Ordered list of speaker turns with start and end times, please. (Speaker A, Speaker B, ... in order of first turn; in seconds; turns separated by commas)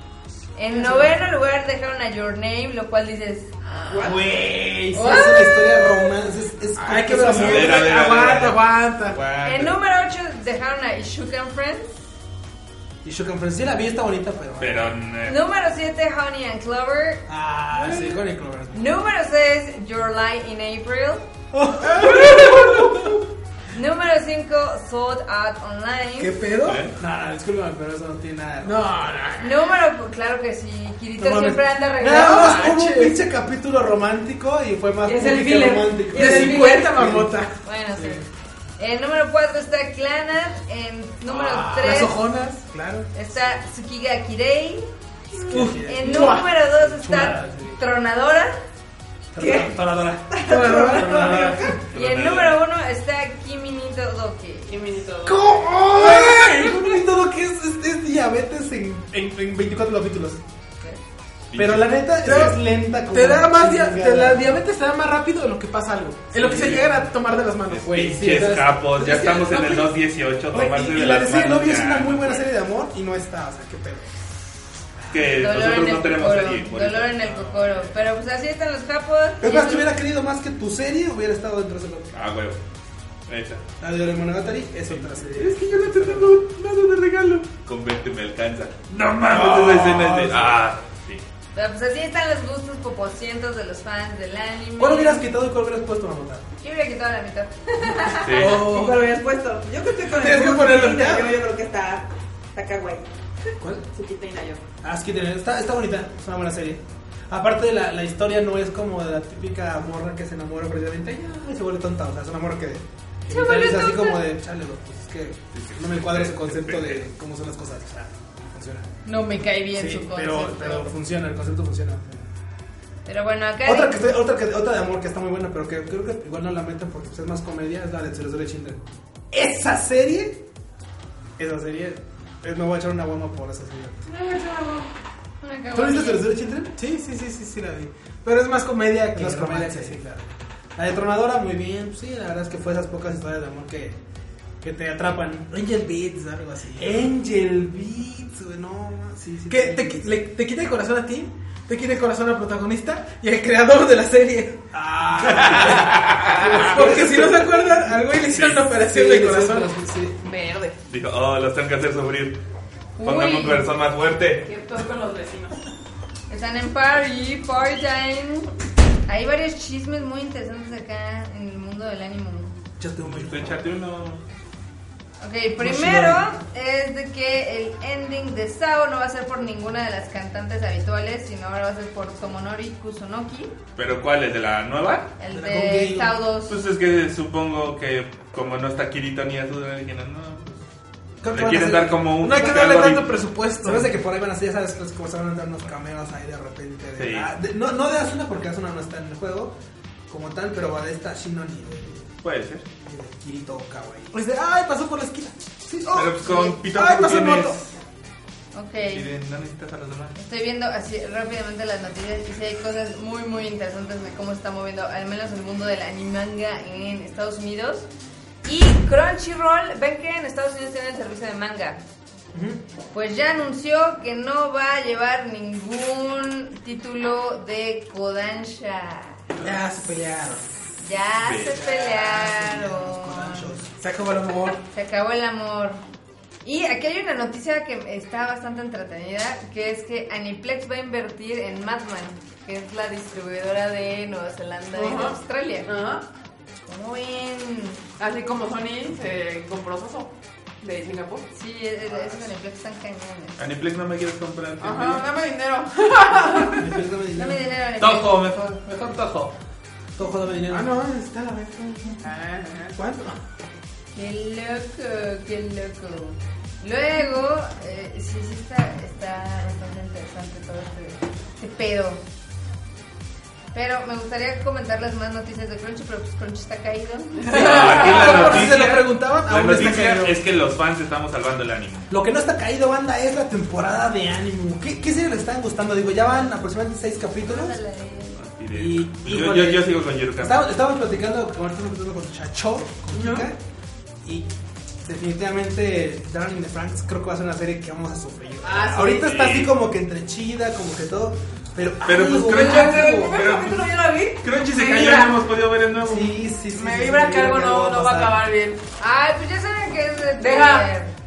Speaker A: 0.5-3.5, Speaker B: 0.7-1.1, Speaker C: 3.7-4.3, Speaker D: 3.9-8.0, Speaker A: 4.9-5.9, Speaker B: 6.8-9.2, Speaker E: 7.0-9.8, Speaker A: 9.4-11.9, Speaker D: 13.0-14.9, Speaker E: 14.6-15.4, Speaker A: 15.2-17.2, Speaker D: 17.3-18.9, Speaker B: 17.8-18.1, Speaker A: 18.7-21.2, Speaker D: 21.5-23.1, Speaker B: 21.8-23.1, Speaker A: 23.7-26.5, Speaker B: 26.2-26.9, Speaker E: 26.6-26.9, Speaker D: 27.0-28.8, Speaker B: 28.6-29.7, Speaker A: 29.4-32.9, Speaker D: 31.2-37.3, Speaker B: 32.0-33.1, Speaker C: 35.0-37.1, Speaker B: 36.1-38.2, Speaker A: 37.6-38.2, Speaker A: 38.8-42.2, Speaker B: 41.3-43.1, Speaker A: 43.1-48.6, Speaker D: 45.5-47.8, Speaker B: 45.5-46.5, Speaker D: 49.3-51.8, Speaker C: 49.4-49.8, Speaker C: 50.3-51.6, Speaker B: 50.4-51.5, Speaker A: 51.3-54.7, Speaker E: 51.9-52.6, Speaker C: 54.7-55.8, Speaker D: 55.2-60.4, Speaker B: 55.9-56.9, Speaker E: 61.5-61.9, Speaker D: 61.5-64.5, Speaker B: 62.2-68.5, Speaker D: 66.4-67.0, Speaker E: 66.4-66.8, Speaker E: 67.7-72.4, Speaker D: 68.0-69.9, Speaker B: 69.0-69.5, Speaker D: 70.5-74.1, Speaker E: 75.1-77.6, Speaker A: 75.3-79.9, Speaker D: 79.4-82.1, Speaker E: 82.1-82.6, Speaker E: 83.3-83.6, Speaker D: 83.8-86.4, Speaker E: 84.9-91.2, Speaker D: 89.2-90.6, Speaker A: 91.5-95.2, Speaker D: 94.8-96.5, Speaker A: 96.6-98.4, Speaker E: 98.1-98.6, Speaker B: 98.4-99.1, Speaker C: 98.4-103.1, Speaker D: 100.2-100.7, Speaker B: 100.2-101.3, Speaker C: 103.8-104.6, Speaker D: 104.8-118.9, Speaker A: 113.3-114.2, Speaker E: 115.5-117.0, Speaker A: 119.0-120.9, Speaker D: 119.7-122.3, Speaker A: 123.0-124.0, Speaker D: 123.6-130.4, Speaker D: 131.4-134.1, Speaker C: 134.1-134.9, Speaker A: 135.4-136.3, Speaker D: 135.7-136.7, Speaker B: 136.8-140.0, Speaker D: 139.1-144.0, Speaker D: 144.6-145.7, Speaker B: 145.5-147.1, Speaker D: 146.8-150.1, Speaker B: 149.5-154.6, Speaker D: 154.7-158.0, Speaker E: 155.2-156.7, Speaker B: 156.5-159.7, Speaker E: 158.3-158.6, Speaker D: 158.8-160.2, Speaker C: 160.2-160.8, Speaker E: 160.9-162.4, Speaker A: 163.0-163.7, Speaker E: 163.0-164.5, Speaker C: 164.4-165.6, Speaker A: 166.3-168.5, Speaker A: 169.1-172.5, Speaker D: 172.8-173.6, Speaker E: 173.0-174.2, Speaker A: 175.2-183.5, Speaker D: 175.6-176.3, Speaker E: 183.8-185.1, Speaker A: 185.2-186.6, Speaker D: 185.3-186.2, Speaker E: 186.5-190.6, Speaker D: 191.2-192.8, Speaker E: 191.3-193.1, Speaker B: 191.3-193.9, Speaker D: 193.6-199.5, Speaker E: 197.0-197.3, Speaker D: 200.1-202.1, Speaker E: 202.2-202.6, Speaker D: 202.8-204.2, Speaker B: 204.1-205.3, Speaker D: 205.7-206.2, Speaker E: 205.9-207.6, Speaker B: 206.3-207.6, Speaker A: 208.5-209.1, Speaker E: 208.8-210.2, Speaker A: 210.2-217.9, Speaker A: 218.4-221.8, Speaker D: 222.3-222.6, Speaker A: 222.9-229.2, Speaker B: 229.4-230.5, Speaker A: 230.8-233.6, Speaker E: 231.2-231.6, Speaker D: 231.5-233.7, Speaker B: 233.8-234.6, Speaker A: 234.7-235.8, Speaker A: 236.4-245.7, Speaker C: 244.7-246.0, Speaker A: 246.7-247.8, Speaker C: 248.0-250.1, Speaker C: 250.6-251.2, Speaker A: 251.3-253.4, Speaker E: 253.4-255.0, Speaker C: 254.6-256.7, Speaker D: 256.5-257.4, Speaker A: 257.1-258.6, Speaker E: 257.8-259.3, Speaker D: 260.0-260.7, Speaker B: 260.5-262.0, Speaker C: 262.0-262.8, Speaker B: 262.8-263.1, Speaker A: 263.9-272.0, Speaker A: 273.5-277.6, Speaker C: 277.2-278.4, Speaker E: 277.3-281.9, Speaker B: 277.5-280.1, Speaker D: 277.8-280.1, Speaker D: 281.9-287.6, Speaker A: 287.2-288.2, Speaker E: 288.1-290.4, Speaker D: 288.5-293.4, Speaker C: 292.9-293.3, Speaker D: 294.0-294.3, Speaker D: 294.8-303.3, Speaker C: 298.4-299.1, Speaker E: 298.9-299.5, Speaker E: 301.8-306.1, Speaker C: 302.2-305.2, Speaker D: 305.8-308.2, Speaker C: 306.5-308.6, Speaker A: 308.8-310.9, Speaker C: 310.2-310.7